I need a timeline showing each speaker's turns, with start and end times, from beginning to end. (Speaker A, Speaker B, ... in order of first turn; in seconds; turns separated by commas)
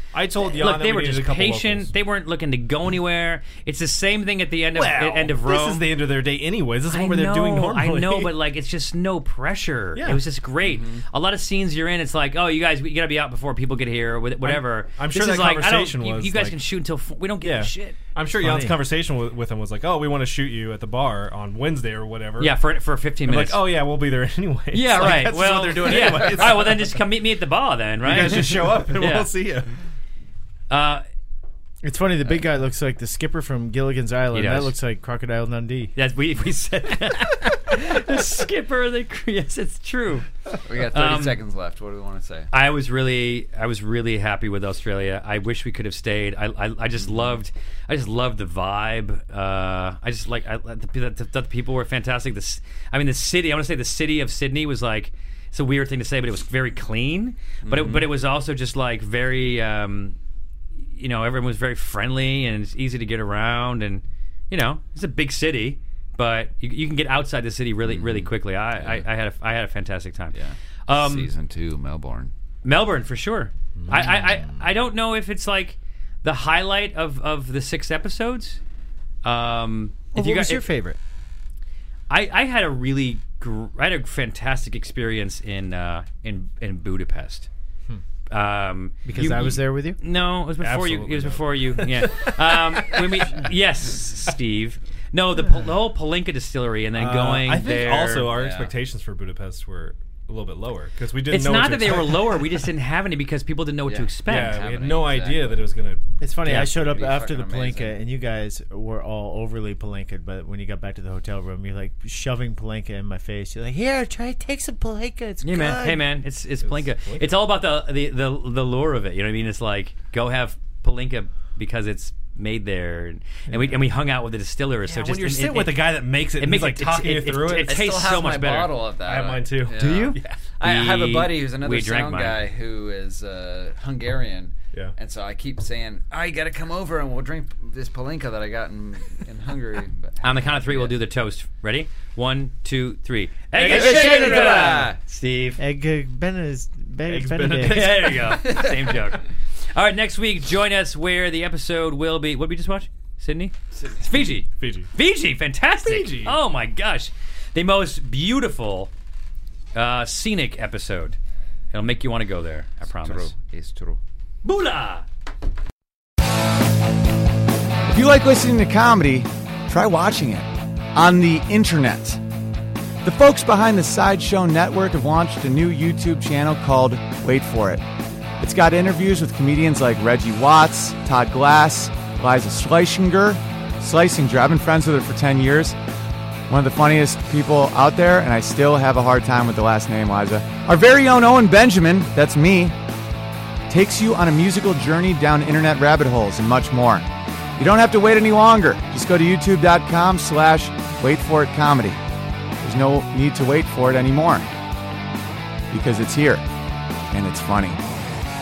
Speaker A: 0.1-1.9, Speaker B: 0.4-5.9, Speaker A: 4.7-8.3, Speaker B: 6.9-18.0, Speaker A: 9.9-10.2, Speaker C: 10.6-11.0, Speaker A: 14.4-16.6, Speaker A: 17.4-22.6, Speaker D: 18.4-18.8, Speaker B: 22.4-23.7, Speaker A: 23.3-27.0, Speaker B: 24.7-29.3, Speaker A: 28.0-29.7, Speaker B: 30.7-31.0, Speaker D: 31.8-35.9, Speaker B: 34.3-34.7, Speaker B: 36.0-40.3, Speaker C: 40.6-42.5, Speaker B: 40.9-41.4, Speaker B: 42.5-60.2, Speaker C: 57.6-58.1, Speaker B: 61.0-70.3, Speaker C: 67.9-69.0, Speaker C: 70.3-72.3, Speaker B: 70.9-71.3, Speaker B: 72.6-78.6, Speaker B: 79.2-80.7, Speaker D: 80.1-81.0, Speaker B: 82.1-87.5, Speaker B: 88.3-98.3, Speaker D: 89.0-90.0, Speaker A: 90.6-93.5, Speaker A: 96.9-102.6, Speaker C: 98.3-98.7, Speaker B: 101.3-104.6, Speaker C: 103.9-105.7, Speaker A: 104.3-106.7, Speaker D: 106.2-116.0, Speaker B: 106.5-106.7, Speaker C: 106.6-108.0, Speaker B: 115.4-128.8, Speaker A: 116.6-117.3, Speaker A: 124.9-127.8, Speaker C: 127.6-141.0, Speaker A: 129.0-129.8, Speaker B: 129.8-132.4, Speaker B: 140.2-145.6, Speaker A: 143.6-144.8, Speaker C: 143.7-145.0, Speaker D: 145.6-147.9, Speaker A: 147.1-148.6, Speaker B: 147.6-158.9, Speaker C: 148.4-148.8, Speaker A: 154.6-154.9, Speaker A: 155.8-156.4, Speaker B: 159.8-161.2, Speaker B: 161.7-163.3, Speaker C: 162.8-164.0, Speaker B: 164.4-165.1, Speaker E: 167.9-172.2, Speaker E: 173.0-177.8, Speaker E: 178.4-185.8, Speaker E: 186.5-192.8, Speaker E: 193.7-197.1, Speaker E: 197.6-202.0, Speaker E: 202.6-204.5, Speaker E: 205.7-206.4, Speaker E: 207.1-207.8